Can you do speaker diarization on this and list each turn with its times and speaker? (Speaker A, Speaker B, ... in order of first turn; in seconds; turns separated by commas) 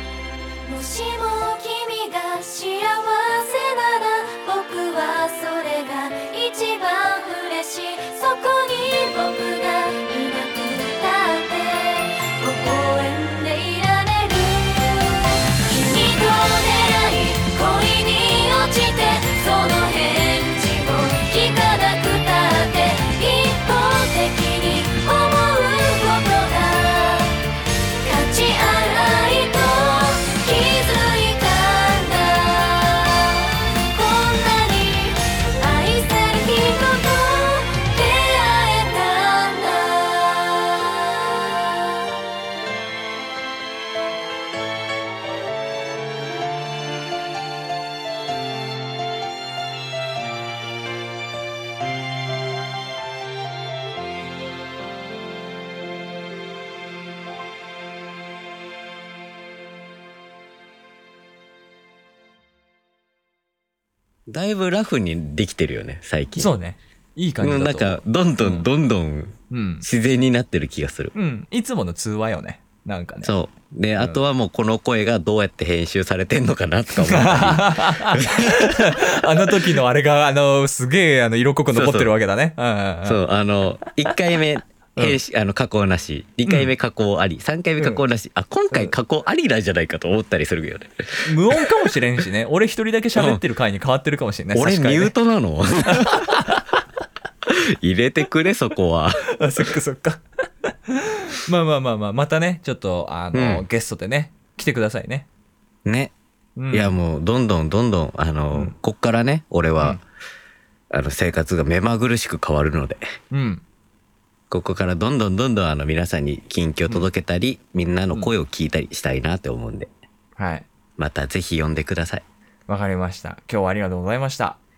Speaker A: 0.6-27.4, Speaker A: 28.0-41.7, Speaker B: 64.3-66.5, Speaker C: 66.4-68.7, Speaker B: 67.4-71.1, Speaker C: 69.5-69.9, Speaker C: 71.2-73.3, Speaker B: 73.2-78.7, Speaker C: 77.0-83.2, Speaker B: 81.7-82.1, Speaker B: 83.0-91.4, Speaker C: 86.5-86.7, Speaker C: 87.8-88.0, Speaker C: 91.2-95.1, Speaker B: 93.2-93.4, Speaker B: 94.5-96.5, Speaker C: 95.9-96.6, Speaker B: 97.5-99.3, Speaker C: 99.3-100.2, Speaker C: 100.9-105.3, Speaker B: 103.3-103.7, Speaker B: 105.8-106.1, Speaker C: 106.6-107.0, Speaker B: 106.7-110.0, Speaker B: 110.9-113.2, Speaker C: 113.3-113.6, Speaker B: 114.5-119.9, Speaker C: 120.4-120.7, Speaker B: 121.0-122.2, Speaker C: 122.7-124.6